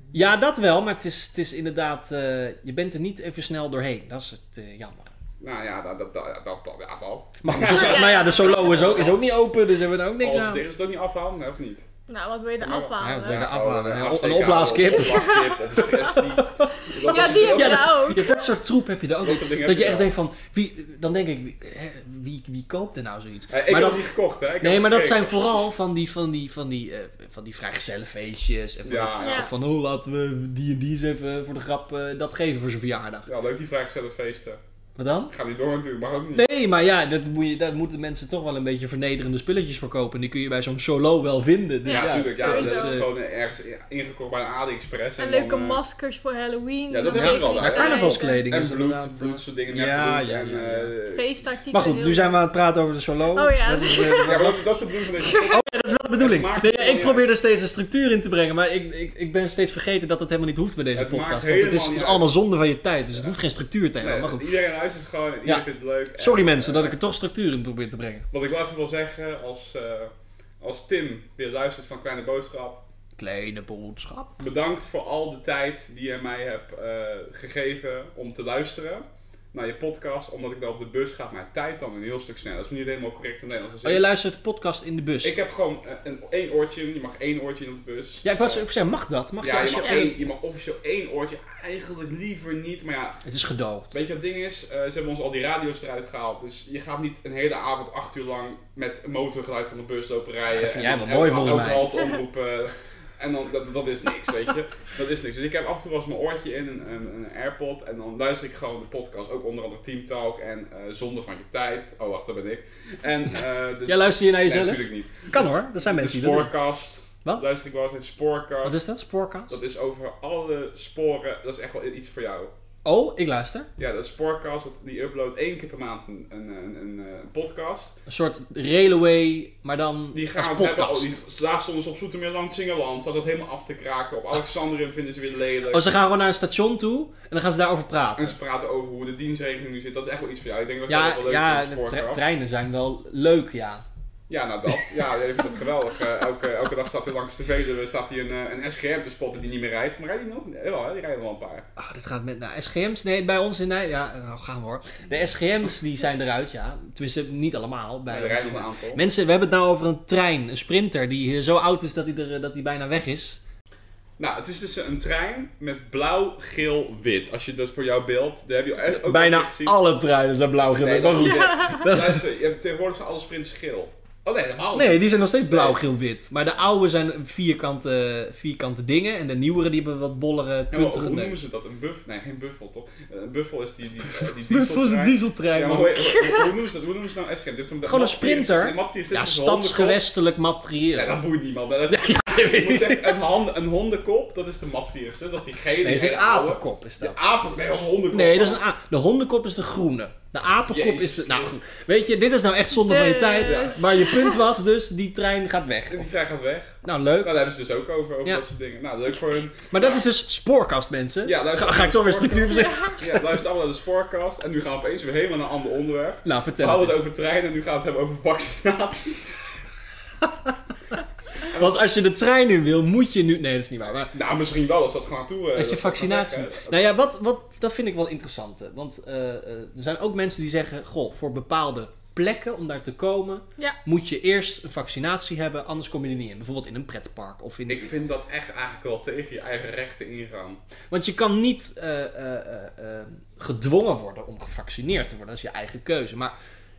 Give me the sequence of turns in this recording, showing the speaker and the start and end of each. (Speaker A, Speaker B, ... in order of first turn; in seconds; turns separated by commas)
Speaker A: 0.1-5.1, Speaker B: 5.4-9.2, Speaker A: 7.4-10.7, Speaker C: 7.6-8.8, Speaker B: 10.2-11.9, Speaker C: 12.1-13.5, Speaker B: 12.6-18.0, Speaker A: 13.0-24.1, Speaker C: 15.0-15.6, Speaker C: 17.0-18.4, Speaker B: 19.2-20.1, Speaker B: 23.5-25.5, Speaker A: 24.6-33.3, Speaker B: 28.9-29.4, Speaker C: 29.2-29.5, Speaker B: 33.3-34.6, Speaker A: 35.0-35.3, Speaker B: 35.3-36.5, Speaker A: 36.3-43.1, Speaker C: 41.8-43.0, Speaker B: 41.9-45.8, Speaker C: 45.2-48.5, Speaker B: 46.9-51.3, Speaker A: 47.1-50.9, Speaker C: 51.1-52.4, Speaker A: 51.7-54.6, Speaker C: 53.4-54.5, Speaker B: 54.2-57.2, Speaker C: 55.2-55.5, Speaker A: 55.4-64.5, Speaker B: 61.0-62.3, Speaker B: 64.0-67.0, Speaker A: 66.2-68.3, Speaker B: 68.3-72.8, Speaker A: 73.2-74.4, Speaker B: 74.4-84.0, Speaker A: 83.8-85.4, Speaker B: 85.2-88.7, Speaker A: 88.2-90.2, Speaker B: 89.4-93.2, Speaker C: 89.8-90.1, Speaker A: 93.2-93.9, Speaker B: 93.9-118.8, Speaker A: 100.5-102.0, Speaker A: 113.9-116.5, Speaker A: 118.6-119.6, Speaker B: 119.5-122.5, Speaker A: 122.8-123.7, Speaker B: 123.8-128.0, Speaker A: 128.1-131.2, Speaker B: 130.1-135.9, Speaker A: 135.7-138.4, Speaker B: 138.2-142.3, Speaker A: 140.9-143.8, Speaker B: 144.3-151.7, Speaker A: 151.8-163.4, Speaker B: 158.1-159.0, Speaker B: 164.2-169.8, Speaker A: 168.9-172.3, Speaker B: 170.8-175.8, Speaker C: 171.2-171.9, Speaker A: 174.7-181.4, Speaker B: 180.7-190.0, Speaker A: 184.0-186.2, Speaker A: 187.8-191.2, Speaker B: 190.9-198.6, Speaker A: 191.9-193.2, Speaker A: 195.8-197.2, Speaker A: 198.1-206.1, Speaker B: 200.7-201.7, Speaker C: 202.8-204.4, Speaker B: 203.4-203.9, Speaker B: 205.9-210.0, Speaker A: 206.8-207.4, Speaker A: 209.7-213.4, Speaker B: 211.2-219.4, Speaker C: 212.5-213.0, Speaker A: 216.2-217.1, Speaker A: 220.2-220.6, Speaker B: 221.4-221.9, Speaker A: 221.5-224.1, Speaker B: 224.1-226.8, Speaker A: 225.6-237.9, Speaker B: 237.7-240.6, Speaker A: 240.9-246.3